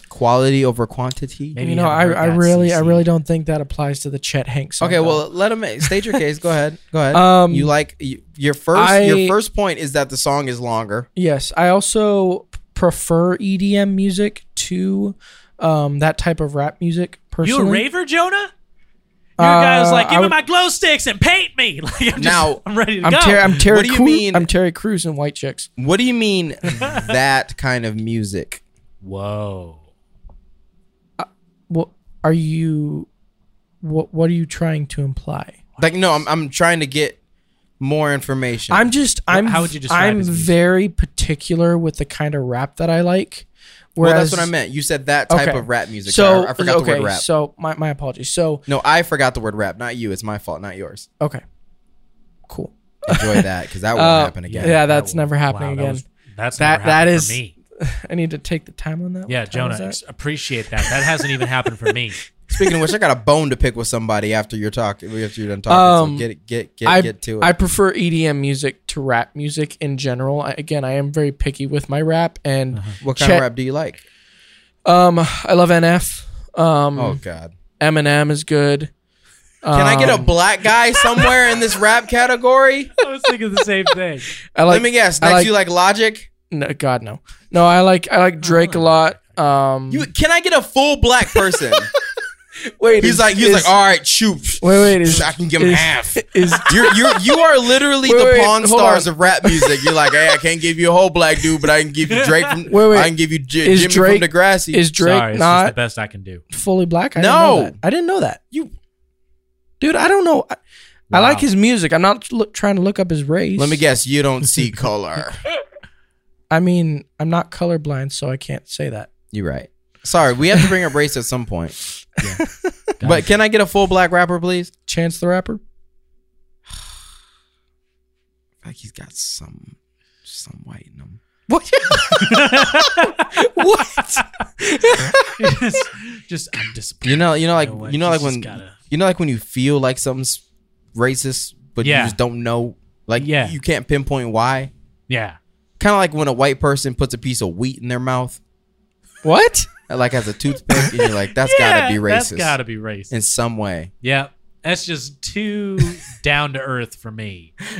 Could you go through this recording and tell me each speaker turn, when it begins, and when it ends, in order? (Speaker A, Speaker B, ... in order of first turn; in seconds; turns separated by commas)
Speaker A: 0.1-1.6, Speaker B: 1.5-3.0, Speaker C: 1.6-5.2, Speaker A: 4.8-11.1, Speaker C: 5.8-6.2, Speaker C: 7.1-7.7, Speaker C: 8.7-9.4, Speaker C: 11.2-17.8, Speaker B: 17.4-18.5, Speaker B: 19.4-23.6, Speaker C: 19.4-20.4, Speaker A: 22.2-22.6, Speaker C: 23.0-25.7, Speaker A: 23.6-24.5, Speaker A: 25.8-28.6, Speaker B: 26.8-27.1, Speaker B: 29.0-29.8, Speaker C: 31.2-33.1, Speaker C: 33.8-35.6, Speaker A: 35.8-37.2, Speaker A: 37.8-38.9, Speaker C: 38.7-44.5, Speaker B: 39.3-40.5, Speaker A: 44.0-47.2, Speaker C: 45.3-48.6, Speaker A: 48.7-51.1, Speaker C: 52.5-56.0, Speaker A: 53.1-54.8, Speaker B: 54.5-57.5, Speaker C: 56.6-60.0, Speaker B: 59.3-62.2, Speaker C: 60.8-62.0, Speaker A: 62.5-67.5, Speaker C: 65.7-66.3, Speaker C: 66.8-73.5, Speaker A: 73.0-74.0, Speaker C: 74.8-77.2, Speaker A: 77.0-77.5, Speaker C: 77.8-78.9, Speaker C: 79.6-80.3, Speaker A: 79.7-82.9, Speaker B: 83.0-84.3, Speaker C: 84.5-85.5, Speaker A: 84.7-86.3, Speaker C: 86.5-90.1, Speaker B: 88.4-89.4, Speaker A: 89.9-91.9, Speaker C: 92.6-93.7, Speaker A: 93.0-104.8, Speaker C: 94.6-97.4, Speaker C: 98.0-100.0, Speaker B: 102.1-102.5, Speaker C: 102.7-105.7, Speaker B: 105.0-106.4, Speaker C: 106.5-108.4, Speaker A: 107.2-107.8, Speaker C: 109.8-110.6, Speaker B: 111.1-111.5, Speaker C: 111.1-113.8, Speaker A: 113.6-115.4, Speaker C: 116.5-119.1, Speaker A: 119.3-121.8, Speaker C: 122.2-122.7, Speaker B: 123.0-123.3, Speaker A: 123.0-124.7, Speaker C: 124.9-125.6, Speaker A: 128.6-131.2, Speaker C: 131.5-135.6, Speaker B: 132.1-134.2, Speaker B: 135.2-138.8, Speaker A: 137.0-140.4, Speaker A: 140.9-144.7, Speaker B: 141.8-142.2, Speaker B: 143.2-143.6, Speaker B: 145.1-145.4, Speaker A: 145.8-148.4, Speaker C: 149.2-149.7, Speaker A: 149.9-152.6, Speaker B: 151.4-153.1, Speaker A: 153.1-153.9, Speaker B: 154.0-157.5